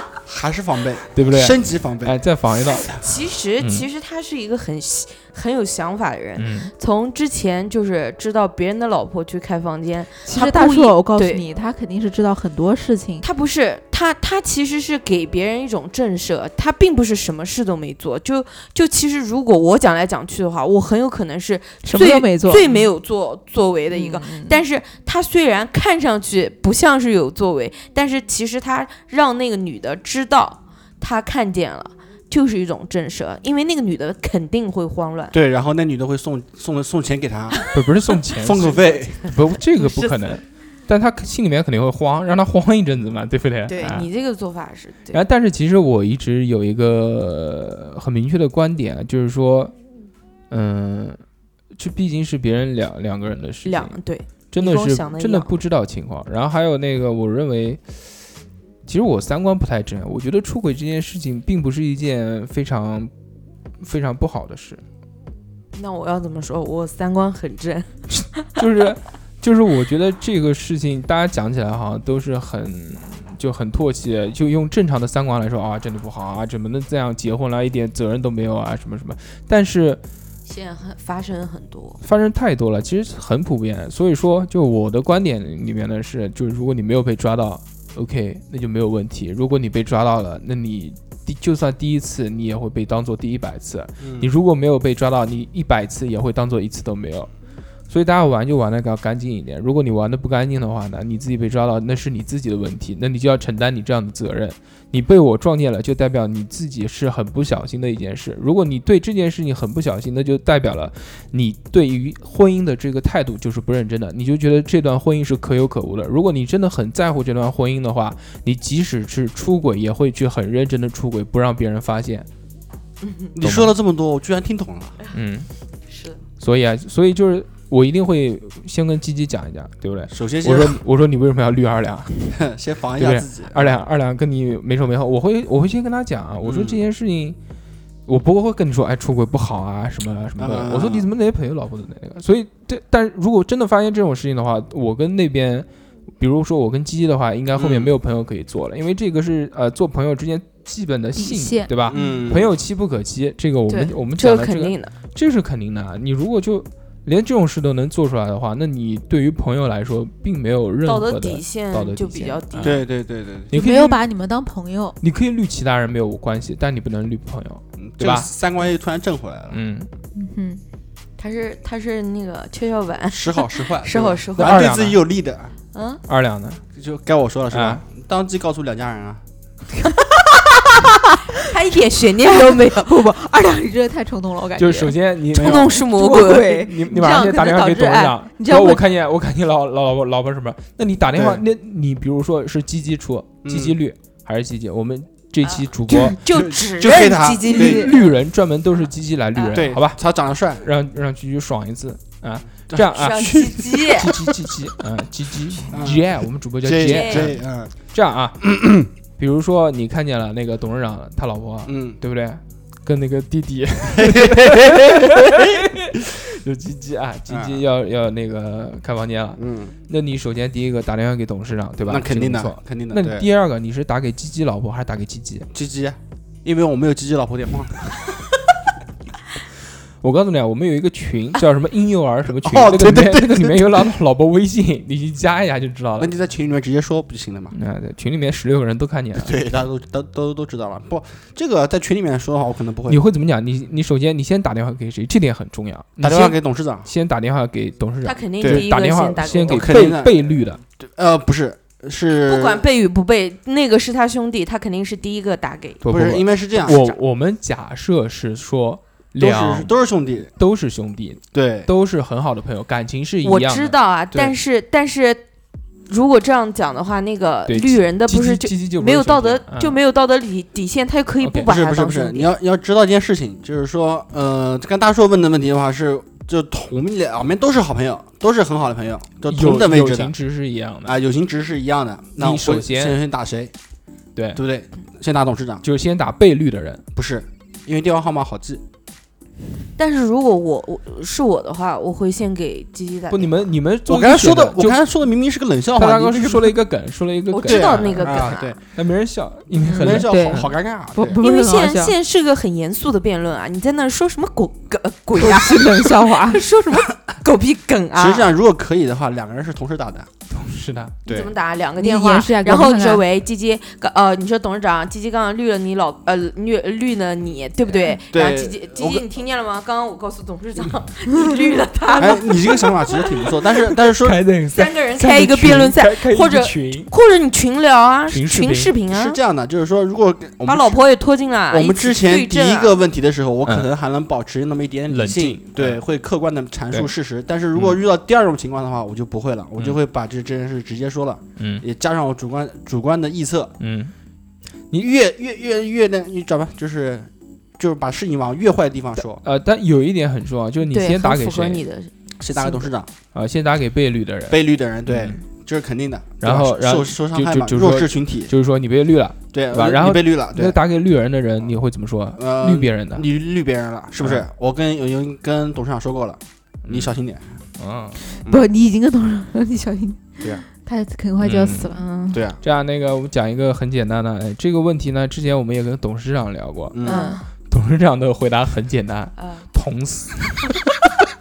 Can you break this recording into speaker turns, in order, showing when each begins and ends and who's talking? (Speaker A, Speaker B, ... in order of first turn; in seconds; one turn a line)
Speaker A: 0.2-2.2
Speaker B: 1.1-2.9
Speaker C: 2.8-11.4
Speaker B: 3.6-3.9
Speaker B: 6.3-6.7
Speaker D: 10.3-13.2
Speaker C: 13.2-35.3
Speaker D: 21.8-22.9
Speaker D: 23.9-24.6
Speaker A: 35.3-37.6
Speaker B: 37.7-44.1
Speaker A: 38.4-39.3
Speaker C: 39.7-40.4
Speaker C: 43.7-45.2
Speaker B: 45.1-49.7
Speaker B: 50.5-51.2
Speaker B: 51.8-54.0
Speaker C: 53.6-55.5
Speaker B: 54.5-57.8
Speaker B: 58.9-63.1
Speaker B: 63.8-64.8
Speaker C: 65.7-68.5
Speaker B: 68.6-80.0
Speaker C: 80.5-82.0
Speaker B: 82.0-97.3
Speaker A: 94.0-94.3
Speaker B: 97.9-122.3
Speaker C: 123.0-123.3
Speaker A: 123.3-125.0
Speaker B: 123.4-123.7
Speaker B: 125.1-125.5
Speaker C: 125.9-126.2
Speaker B: 126.4-132.4
Speaker A: 130.1-130.8
Speaker A: 132.3-133.8
Speaker B: 133.0-137.4
Speaker A: 136.4-136.8
Speaker B: 138.1-145.7
Speaker A: 140.4-141.1
Speaker B: 146.2-162.8
Speaker A: 147.5-147.9
Speaker D: 151.2-151.7
Speaker A: 151.9-152.5
Speaker C: 151.9-152.2
Speaker C: 153.7-154.9
Speaker C: 160.8-162.8
Speaker A: 162.6-163.5
Speaker B: 163.5-164.0
Speaker D: 163.5-165.0
Speaker B: 165.0-168.3
Speaker A: 167.8-169.6
Speaker B: 169.5-169.9
Speaker D: 170.1-170.6
Speaker C: 171.2-174.7
Speaker A: 173.1-175.5
Speaker B: 174.4-175.0
Speaker C: 175.7-176.0
Speaker B: 176.1-176.6
Speaker A: 176.8-179.2
Speaker B: 177.5-177.8
Speaker C: 181.4-183.1
Speaker D: 182.5-184.9
Speaker B: 184.6-196.2
Speaker A: 185.3-185.7
Speaker C: 185.3-186.7
Speaker D: 185.8-188.8
Speaker A: 191.1-191.4
Speaker A: 193.4-193.8
Speaker C: 195.4-198.1
Speaker A: 196.3-198.0
Speaker B: 197.6-200.0
Speaker C: 199.3-199.7
Speaker A: 199.5-200.7
Speaker B: 200.5-208.4
Speaker A: 202.7-203.0
Speaker C: 202.9-204.1
Speaker A: 205.7-207.7
Speaker C: 206.8-207.3
Speaker A: 208.4-208.9
Speaker B: 209.2-225.5
Speaker A: 211.6-212.0
Speaker A: 213.9-215.7
Speaker A: 217.3-217.6
Speaker A: 219.4-219.7
Speaker A: 221.8-223.3
Speaker A: 225.5-228.2
Speaker B: 230.0-236.1
Speaker A: 232.3-233.9
Speaker A: 236.0-237.5
Speaker B: 237.5-239.3
Speaker A: 239.1-243.0
Speaker B: 242.9-250.6
Speaker A: 246.0-246.9
Speaker C: 248.0-250.0
Speaker A: 248.4-248.7
Speaker A: 249.3-252.7
Speaker C: 252.3-255.8
Speaker A: 255.8-256.8
Speaker B: 255.8-259.7
Speaker C: 256.6-257.0
Speaker A: 259.2-260.3
Speaker B: 260.3-263.8
Speaker A: 261.3-261.7
Speaker C: 263.2-265.2
Speaker C: 265.9-272.3
Speaker B: 267.5-269.8
Speaker B: 271.2-271.5
Speaker A: 271.5-280.1
Speaker B: 279.3-280.9
Speaker A: 280.8-283.5
Speaker B: 282.2-283.0
Speaker B: 284.1-284.4
Speaker A: 284.3-285.6
Speaker B: 285.6-286.8
Speaker A: 286.9-288.6
Speaker C: 289.8-293.5
Speaker B: 293.1-294.8
Speaker A: 293.9-296.6
Speaker B: 295.8-300.5
Speaker C: 297.3-298.6
Speaker A: 297.4-298.6
Speaker C: 299.6-300.0
Speaker A: 299.6-301.2
Speaker D: 300.0-301.9
Speaker C: 301.2-308.3
Speaker D: 305.1-306.4
Speaker A: 307.9-310.1
Speaker B: 310.3-310.9
Speaker A: 311.1-311.3
Speaker C: 311.1-323.2
Speaker D: 311.8-313.0
Speaker A: 318.1-319.0
Speaker A: 322.0-324.2
Speaker B: 324.0-326.9
Speaker C: 324.5-329.2
Speaker B: 328.1-328.7
Speaker A: 328.9-330.8
Speaker C: 330.4-332.8
Speaker A: 331.5-343.6
Speaker B: 334.9-335.8
Speaker B: 341.4-341.6
Speaker B: 343.6-343.9
Speaker A: 344.8-349.2
Speaker B: 349.2-351.6
Speaker C: 350.7-351.9
Speaker A: 352.2-352.9
Speaker B: 353.1-355.2
Speaker A: 354.3-358.3
Speaker B: 356.2-363.1
Speaker A: 359.3-360.6
Speaker A: 362.1-367.2
Speaker B: 366.6-366.9
Speaker B: 367.6-368.0
Speaker D: 368.2-372.2
Speaker B: 371.2-371.8
Speaker A: 372.1-372.4
Speaker B: 372.4-376.8
Speaker A: 376.7-377.0
Speaker C: 376.8-377.2
Speaker D: 376.9-377.2
Speaker B: 377.5-380.5
Speaker C: 379.1-379.5